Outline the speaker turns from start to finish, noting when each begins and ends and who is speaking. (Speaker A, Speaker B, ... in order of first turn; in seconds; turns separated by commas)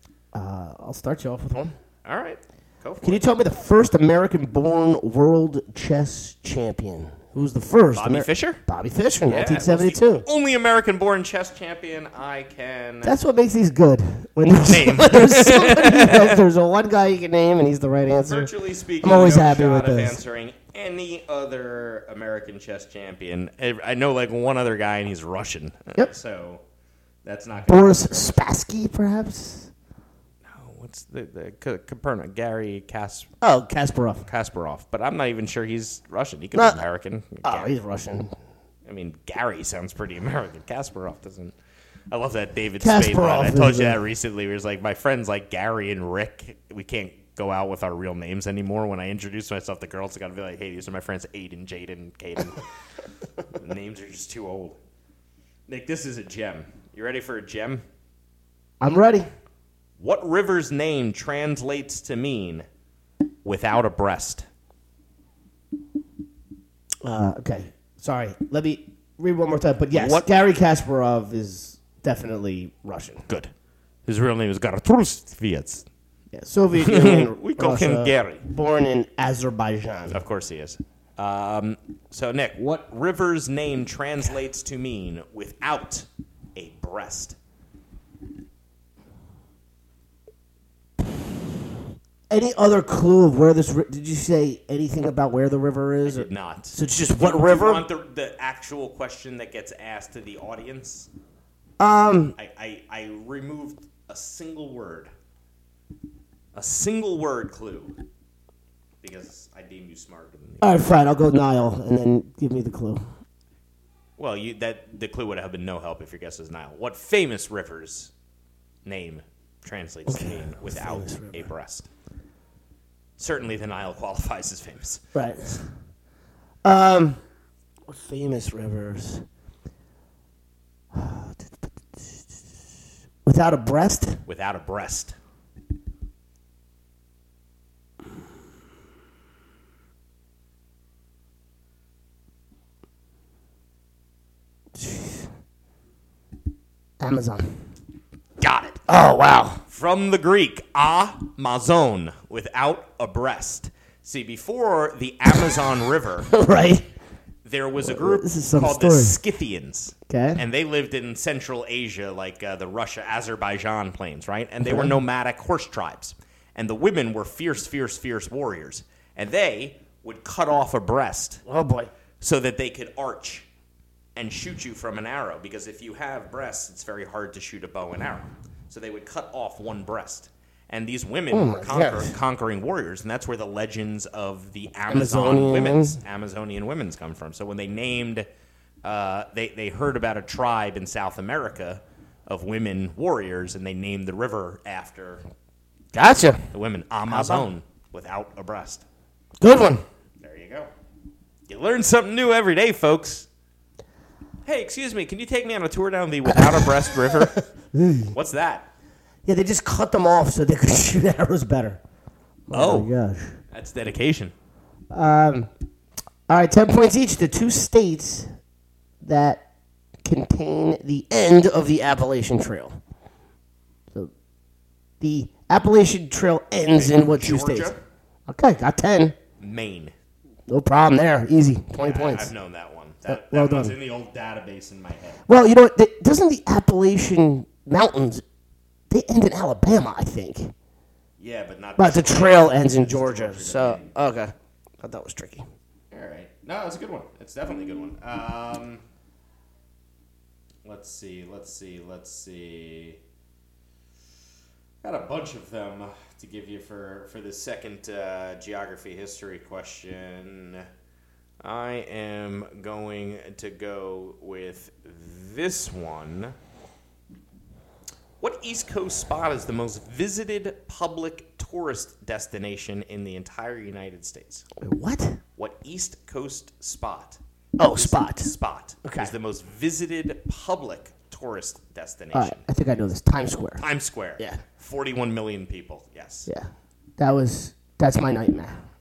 Speaker A: 0.3-1.7, Speaker B: 2.0-3.2, Speaker A: 3.0-10.2, Speaker B: 7.9-8.6, Speaker B: 9.2-13.2, Speaker A: 13.0-20.2, Speaker B: 14.6-16.4, Speaker B: 18.2-26.6, Speaker B: 27.2-28.4, Speaker A: 27.7-29.7, Speaker B: 30.4-33.3, Speaker A: 33.4-34.3, Speaker B: 34.2-37.7, Speaker A: 36.5-36.8, Speaker A: 37.4-38.3, Speaker B: 38.8-41.5, Speaker B: 42.1-52.6, Speaker A: 42.8-44.0, Speaker B: 53.5-54.8, Speaker B: 55.7-57.8, Speaker A: 58.8-59.3, Speaker B: 60.0-62.6, Speaker B: 63.4-64.5, Speaker A: 67.0-73.2, Speaker B: 69.9-70.3, Speaker B: 74.0-75.8, Speaker A: 76.3-80.2, Speaker B: 76.8-78.4, Speaker B: 80.1-87.3, Speaker A: 92.3-97.8, Speaker B: 96.0-101.1, Speaker A: 101.8-102.3, Speaker B: 102.3-105.1, Speaker B: 106.5-108.0, Speaker B: 109.0-110.8, Speaker A: 110.6-113.0, Speaker B: 114.2-118.1, Speaker B: 118.8-121.9, Speaker A: 120.0-121.5, Speaker B: 123.2-125.0, Speaker A: 125.1-125.6, Speaker A: 126.6-127.2, Speaker A: 127.9-129.2, Speaker A: 130.9-131.5, Speaker A: 133.2-134.2, Speaker B: 134.2-135.1, Speaker A: 144.8-145.3, Speaker A: 147.0-147.6, Speaker B: 148.4-148.8, Speaker A: 148.9-149.6, Speaker B: 149.7-156.3, Speaker A: 156.3-156.9, Speaker B: 157.4-171.4, Speaker A: 157.8-159.2, Speaker A: 160.1-160.4, Speaker A: 164.6-164.9, Speaker A: 171.4-171.9, Speaker B: 172.2-173.4, Speaker B: 174.1-188.3, Speaker A: 181.3-182.1, Speaker A: 184.9-186.0, Speaker B: 188.8-195.2, Speaker A: 195.9-196.5, Speaker B: 196.5-198.8, Speaker A: 197.1-197.5, Speaker A: 199.4-199.8, Speaker B: 200.2-200.7, Speaker B: 201.5-203.3, Speaker B: 204.4-207.4, Speaker A: 206.3-208.1, Speaker B: 208.1-208.7, Speaker A: 209.2-211.8, Speaker A: 212.5-213.4, Speaker B: 212.5-212.9, Speaker B: 213.5-214.3, Speaker A: 214.9-215.5, Speaker A: 216.3-218.3, Speaker A: 219.0-219.4, Speaker A: 220.0-222.8, Speaker A: 225.0-227.7, Speaker B: 226.7-227.8, Speaker A: 228.3-229.1, Speaker B: 229.4-229.9, Speaker A: 230.5-232.3, Speaker B: 231.8-235.2, Speaker A: 233.1-233.8, Speaker A: 235.3-238.2, Speaker A: 238.9-240.5, Speaker B: 241.2-243.9, Speaker A: 241.8-245.5, Speaker B: 245.9-248.8, Speaker B: 250.6-253.0, Speaker B: 254.8-260.6, Speaker B: 261.4-266.3, Speaker B: 268.2-274.4, Speaker A: 274.6-275.2, Speaker B: 275.4-282.4, Speaker A: 277.6-278.3, Speaker A: 278.8-279.1, Speaker A: 282.1-283.6, Speaker B: 283.6-286.3, Speaker A: 286.3-288.6